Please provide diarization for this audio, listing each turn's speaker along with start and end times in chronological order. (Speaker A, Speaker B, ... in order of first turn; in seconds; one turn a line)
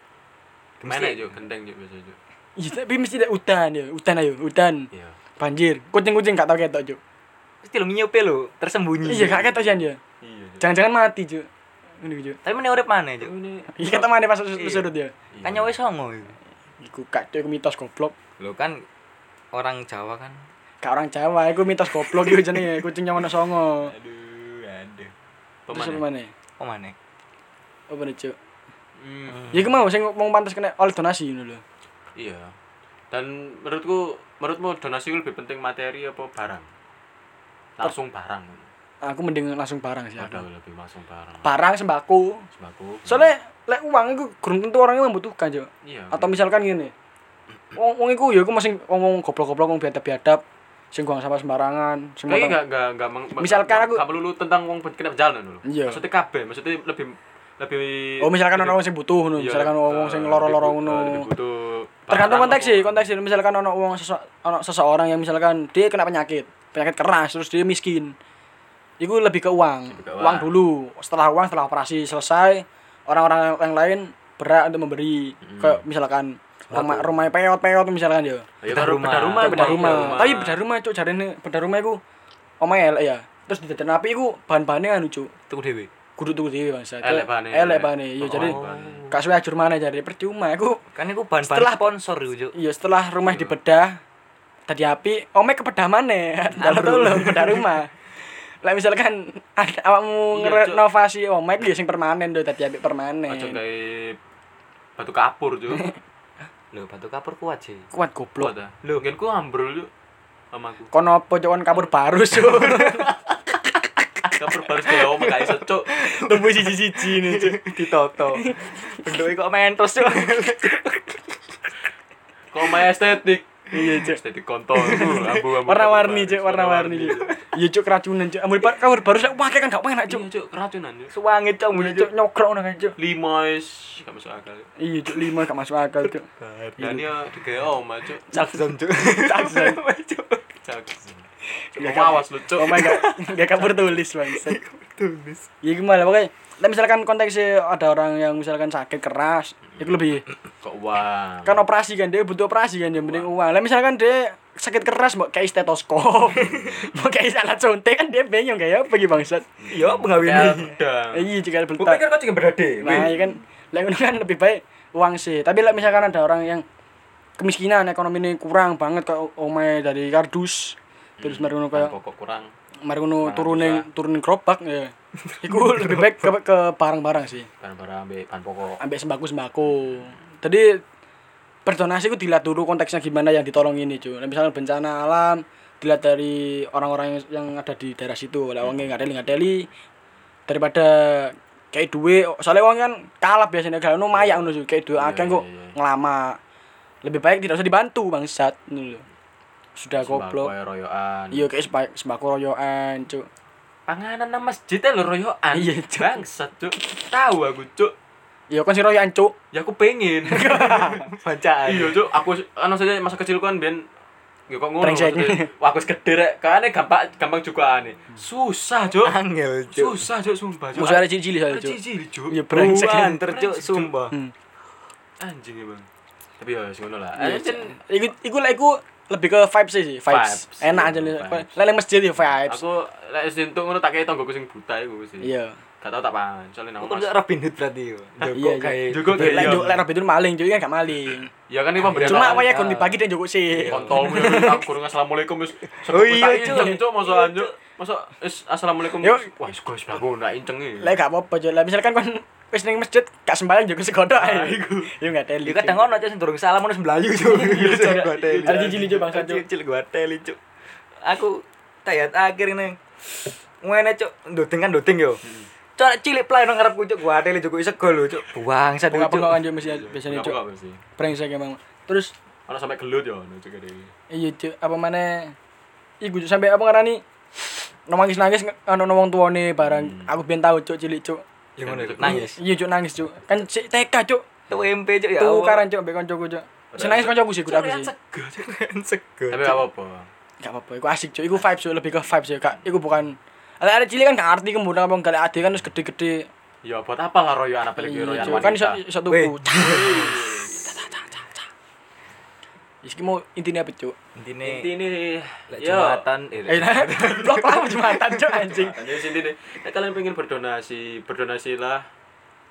Speaker A: 0.8-1.3
Speaker B: 0.9-2.2
Speaker C: 2.6-7.0
Speaker A: 7.6-9.4
Speaker C: 9.0-10.0
Speaker B: 9.1-10.6
Speaker C: 10.6-11.5
Speaker C: 12.0-12.4
Speaker A: 12.4-13.3
Speaker B: 13.2-15.7
Speaker C: 13.8-15.1
Speaker A: 15.4-16.4
Speaker C: 16.8-18.1
Speaker A: 18.4-18.9
Speaker A: 19.5-20.4
Speaker C: 20.8-23.9
Speaker A: 22.0-22.6
Speaker A: 23.9-25.1
Speaker B: 25.7-26.0
Speaker C: 25.7-26.3
Speaker A: 26.6-26.9
Speaker C: 27.9-28.3
Speaker B: 29.0-29.5
Speaker A: 29.3-29.8
Speaker C: 29.5-31.6
Speaker B: 32.1-32.5
Speaker B: 33.1-36.7
Speaker B: 37.8-38.7
Speaker C: 39.0-40.4
Speaker B: 40.2-41.5
Speaker C: 41.4-42.5
Speaker B: 42.5-43.3
Speaker C: 43.0-46.9
Speaker B: 45.8-46.4
Speaker C: 47.7-52.6
Speaker B: 52.2-58.8
Speaker C: 53.4-54.0
Speaker C: 55.6-56.0
Speaker C: 58.2-61.3
Speaker B: 59.4-63.1
Speaker C: 62.1-68.1
Speaker C: 69.0-78.5
Speaker B: 69.9-70.5
Speaker B: 75.4-75.8
Speaker A: 76.7-77.2
Speaker B: 78.6-80.6
Speaker A: 78.7-80.2
Speaker C: 79.4-82.0
Speaker C: 82.6-85.3
Speaker A: 85.5-85.9
Speaker C: 86.2-88.6
Speaker B: 87.0-89.0
Speaker A: 88.2-89.2
Speaker C: 89.1-90.8
Speaker A: 90.9-92.5
Speaker C: 91.4-91.8
Speaker C: 92.5-94.0
Speaker B: 93.2-93.5
Speaker C: 94.7-103.6
Speaker A: 96.6-97.8
Speaker B: 100.3-100.8
Speaker B: 103.3-104.2
Speaker B: 105.0-105.9
Speaker A: 106.7-107.9
Speaker C: 107.9-108.5
Speaker B: 108.4-109.9
Speaker B: 110.5-110.9
Speaker C: 110.9-113.1
Speaker A: 112.3-113.7
Speaker A: 114.2-121.4
Speaker B: 114.4-115.9
Speaker C: 116.0-117.7
Speaker C: 118.3-118.9
Speaker B: 122.5-127.3
Speaker C: 123.7-124.2
Speaker A: 124.8-125.4
Speaker C: 124.9-130.3
Speaker A: 127.0-127.3
Speaker B: 130.1-131.1
Speaker A: 131.1-132.1
Speaker C: 131.7-132.9
Speaker B: 133.0-134.7
Speaker C: 134.8-136.2
Speaker A: 136.0-137.0
Speaker B: 136.8-138.4
Speaker A: 138.3-140.4
Speaker C: 139.0-139.8
Speaker B: 140.6-143.0
Speaker C: 141.7-144.6
Speaker A: 142.6-145.5
Speaker C: 145.6-150.2
Speaker B: 150.6-151.6
Speaker C: 151.4-159.5
Speaker B: 152.9-153.3
Speaker B: 156.4-156.7
Speaker B: 159.6-163.3
Speaker A: 159.7-160.7
Speaker C: 161.1-162.0
Speaker C: 162.8-166.6
Speaker C: 167.4-171.9
Speaker B: 171.2-172.5
Speaker C: 172.8-177.5
Speaker B: 173.2-173.9
Speaker A: 175.2-176.3
Speaker B: 177.6-178.8
Speaker C: 178.8-180.8
Speaker C: 181.7-189.7
Speaker B: 188.6-189.3
Speaker C: 190.5-196.4
Speaker B: 194.1-195.8
Speaker C: 197.0-199.0
Speaker C: 199.8-200.5
Speaker B: 199.9-201.5
Speaker C: 201.3-203.2
Speaker B: 203.9-207.9
Speaker C: 205.5-206.2
Speaker C: 208.5-209.3
Speaker B: 209.5-211.0
Speaker C: 210.2-211.0
Speaker A: 210.9-212.0
Speaker B: 211.6-213.9
Speaker B: 214.5-219.2
Speaker C: 214.8-215.5
Speaker A: 219.0-220.1
Speaker B: 219.7-223.9
Speaker C: 220.7-223.2
Speaker A: 222.5-224.2
Speaker B: 225.2-225.9
Speaker B: 226.4-227.8
Speaker C: 227.2-232.6
Speaker B: 230.1-231.6
Speaker B: 232.4-235.3
Speaker C: 235.2-235.6
Speaker B: 235.8-237.2
Speaker A: 236.8-239.8
Speaker B: 238.2-239.8
Speaker C: 238.3-241.3
Speaker B: 241.5-242.6
Speaker A: 241.8-244.4
Speaker C: 241.9-244.7
Speaker B: 243.6-251.0
Speaker A: 245.8-247.5
Speaker C: 246.3-246.8
Speaker C: 249.0-249.3
Speaker C: 250.8-255.9
Speaker B: 254.1-254.9
Speaker A: 255.4-260.4
Speaker C: 257.3-259.4
Speaker B: 257.5-259.1
Speaker A: 261.0-265.2
Speaker A: 265.8-269.4
Speaker C: 268.9-270.4
Speaker B: 269.6-270.8
Speaker C: 271.0-272.1
Speaker B: 272.5-273.9
Speaker C: 274.1-275.3
Speaker C: 276.0-281.2
Speaker B: 279.6-280.1
Speaker A: 281.6-282.4
Speaker B: 281.6-282.3
Speaker C: 282.0-284.2
Speaker A: 284.5-285.6
Speaker C: 285.2-287.9
Speaker B: 286.7-288.4
Speaker A: 288.3-289.6
Speaker B: 289.3-290.1
Speaker C: 290.4-296.2
Speaker B: 296.6-298.8
Speaker C: 297.8-301.2
Speaker A: 299.1-300.3
Speaker B: 299.6-300.8
Speaker C: 302.8-303.9
Speaker A: 304.1-304.7
Speaker B: 304.4-306.0
Speaker A: 305.5-308.2
Speaker C: 306.5-308.8
Speaker B: 308.5-311.9